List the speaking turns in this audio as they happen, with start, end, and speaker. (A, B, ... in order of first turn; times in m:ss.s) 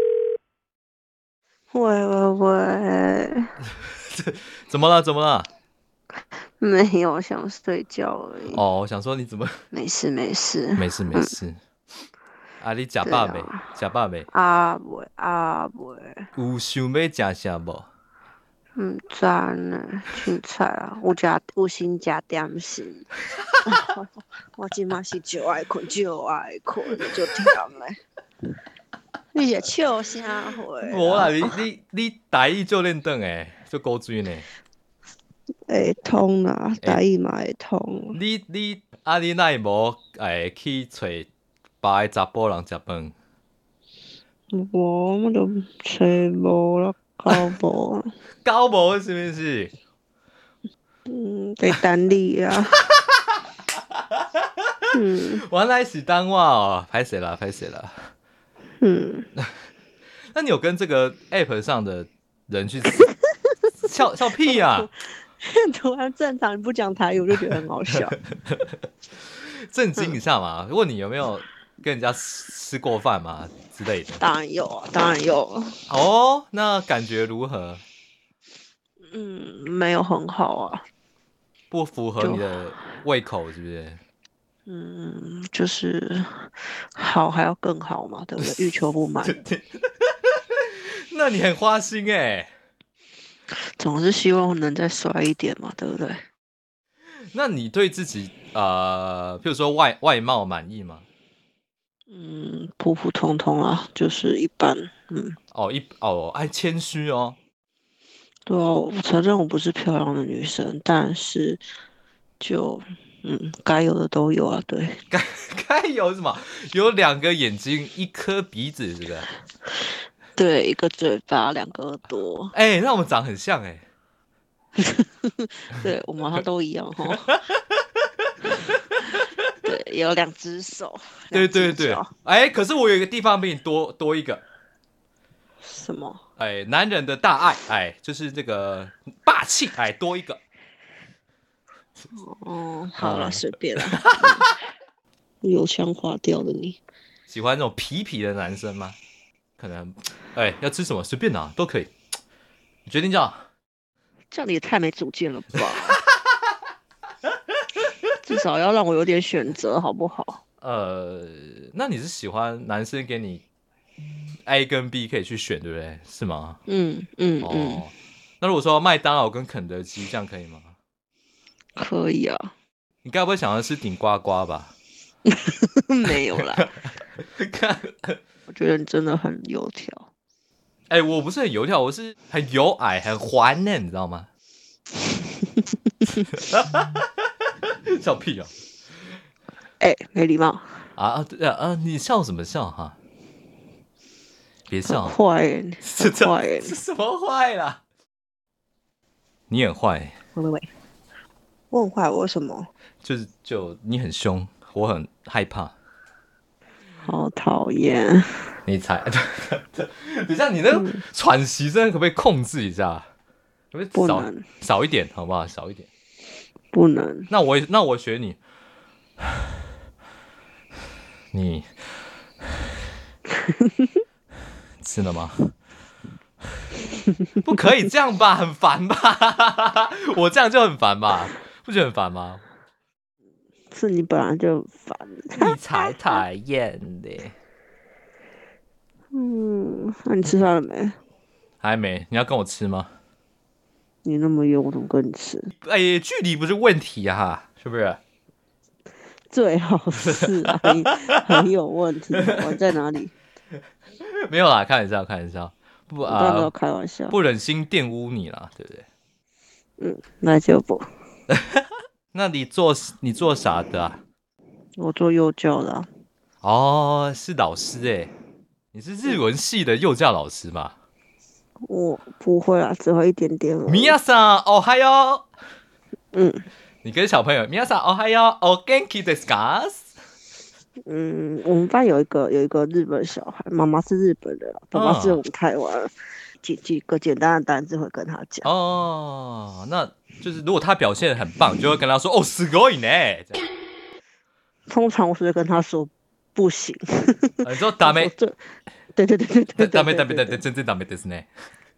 0:01.7-0:03.5 A
0:04.1-0:05.5 B
0:06.4-0:08.6 A
0:08.5-0:09.5 B
0:09.7-0:11.3 A
0:10.8-0:11.6 B
0:12.6-0:14.3 B
0:13.0-0:13.7 A
0:14.3-0:16.3 A
0:16.4-0:17.9 B
0:18.8-0:23.1 A
0:23.6-0:28.0 A
0:29.3-0:31.6 A
0:30.8-0:34.4 B
0:35.7-0:38.2 A
0:38.1-0:41.3 B
0:41.8-0:43.1 B
0:44.5-0:48.1 A
0:48.4-0:49.7 B
0:51.1-0:52.8 A
0:52.9-0:54.9 B
0:54.9-0:55.4 A
0:55.4-0:58.1 B
0:58.8-0:59.3 A
1:00.3-1:03.1 B
1:03.8-1:04.9 B
1:04.5-1:04.8 A
1:05.4-1:08.1 A
1:09.7-1:14.2 B
1:14.2-1:15.8 A
1:15.9-1:17.8 B
1:19.1-1:20.8 A
1:21.7-1:24.0 B
1:22.2-1:22.5 A
1:24.7-1:29.4 A
1:29.2-1:32.5 B
1:33.5-1:36.2 A
1:37.3-1:41.0 B
1:42.1-1:45.4 A
1:45.5-1:47.4 B
1:48.5-1:51.6 A
1:52.4-1:55.0 A
1:55.1-1:59.3 B
2:00.3-2:02.5 A
2:02.5-2:03.8 B
2:04.8-2:07.2 A
2:07.2-2:07.6 B
2:08.7-2:09.2 B
2:09.6-2:12.1 A
2:11.3-2:14.4 B
2:15.6-2:16.2 A
2:16.4-2:20.4 B
2:22.1-2:24.4 A
2:23.0-2:24.4 B
2:25.4-2:26.8 A
2:27.3-2:29.0 B
2:29.6-2:31.9 B
2:32.9-2:33.4 B
2:34.3-2:36.0 A
2:38.2-2:40.4 A
2:40.6-2:43.4 B
2:44.4-2:46.6 B
2:46.7-2:47.8 A
2:47.4-2:50.8 B
2:51.8-2:52.5 A
2:53.0-2:54.7 B
2:55.3-2:56.7 A
2:56.6-2:58.2 B
2:58.5-3:00.1 A
3:00.9-3:04.3 B
3:06.3-3:08.5 B
3:09.8-3:10.8 A
3:11.0-3:13.0 B
3:14.7-3:15.2 B
3:14.8-3:16.8 A
3:15.8-3:17.8 B
3:19.5-3:20.1 B
3:20.3-3:20.7 A
3:21.7-3:22.7 A
3:23.0-3:25.7 B
3:27.0-3:28.5 A
3:28.6-3:33.1 B
3:30.7-3:31.0 A
3:33.7-3:35.9 B
3:33.9-3:34.4 A
3:36.7-3:37.3 A
3:37.3-3:38.4 B
3:41.3-3:41.7 B
3:44.8-3:45.5 B
3:47.4-3:52.4 B
3:53.7-3:55.9 A
3:55.3-3:57.3 B
3:59.1-4:01.0 A
4:01.6-4:02.9 B
4:04.0-4:05.5 A
4:05.6-4:08.0 B
4:09.1-4:13.1 A
4:10.0-4:11.2 B
4:12.2-4:12.5 B
4:14.1-4:16.5 B
4:16.0-4:17.2 A
4:17.1-4:18.8 B
4:19.8-4:20.8 A
4:22.1-4:24.0 B
4:24.8-4:25.9 A
4:26.4-4:28.1 B
4:28.7-4:30.7 B
4:31.6-4:34.0 A
4:33.7-4:35.2 B
4:36.1-4:36.4 A
4:36.8-4:39.9 B
4:40.8-4:48.5 A
4:44.7-4:45.2 B
4:48.4-4:53.4 B
4:54.7-5:00.4 A
4:57.4-4:58.1 B
4:59.6-5:01.3 B